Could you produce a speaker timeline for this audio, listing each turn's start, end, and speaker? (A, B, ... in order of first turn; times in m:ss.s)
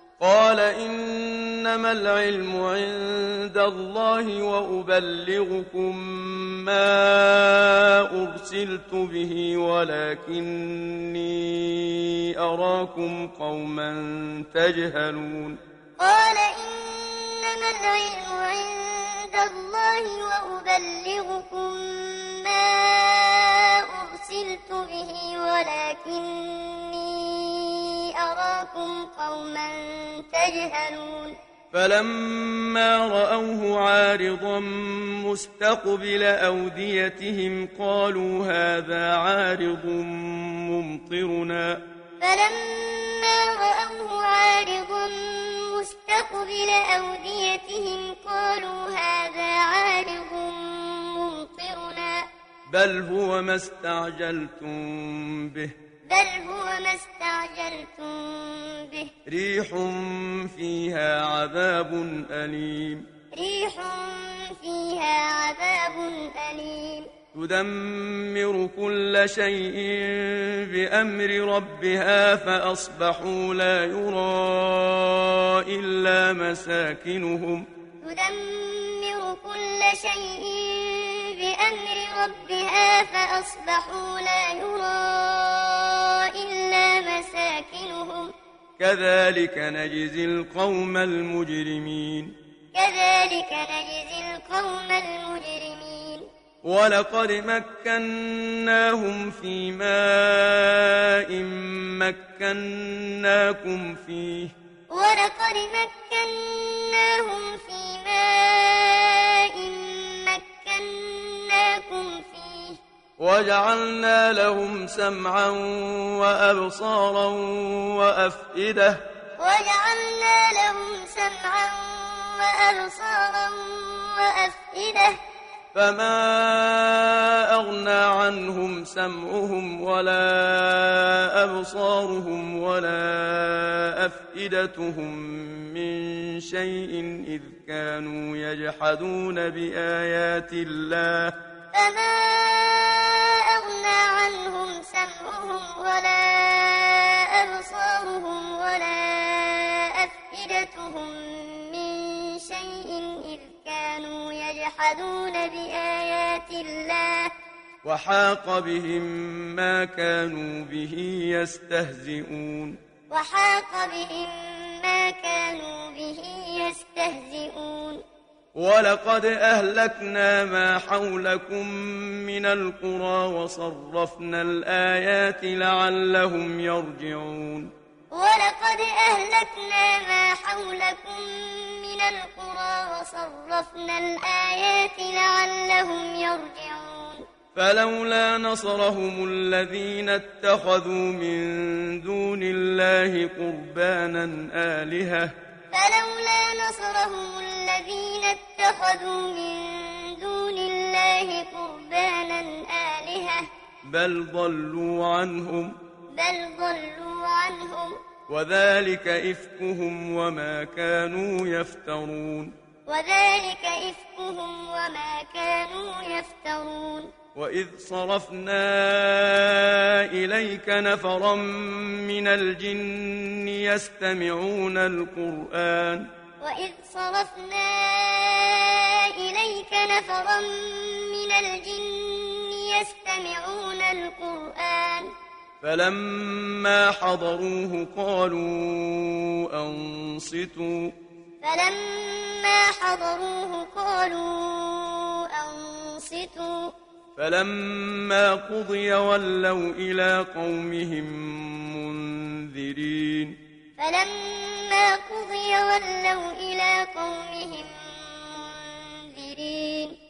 0:00.2-0:15.6 A
0:16.0-0:31.4 B
0:31.7-0:41.8 A
0:42.2-0:52.3 B
0:52.7-0:55.7 A
0:56.1-0:59.1 B
0:59.3-1:03.1 A
1:03.3-1:07.1 B
1:07.3-1:17.7 A
1:18.0-1:28.3 B
1:28.8-1:32.3 A
1:32.7-1:36.3 B
1:36.6-1:44.5 A
1:44.9-1:52.8 B
1:53.2-1:59.0 A
1:59.4-2:05.2 B
2:05.7-2:21.3 A
2:21.7-2:37.3 B
2:37.8-2:42.8 A
2:43.1-2:48.0 B
2:48.6-2:57.7 A
2:58.1-3:07.2 B
3:07.5-3:15.3 A
3:15.7-3:23.5 B
3:23.9-3:25.8 A
3:26.1-3:28.0 B
3:28.3-3:32.5 A
3:32.9-3:37.1 B
3:37.3-3:46.1 A
3:46.4-3:55.1 B
3:55.6-4:00.9 A
4:01.4-4:06.7 B
4:07.2-4:13.4 A
4:13.8-4:20.0 B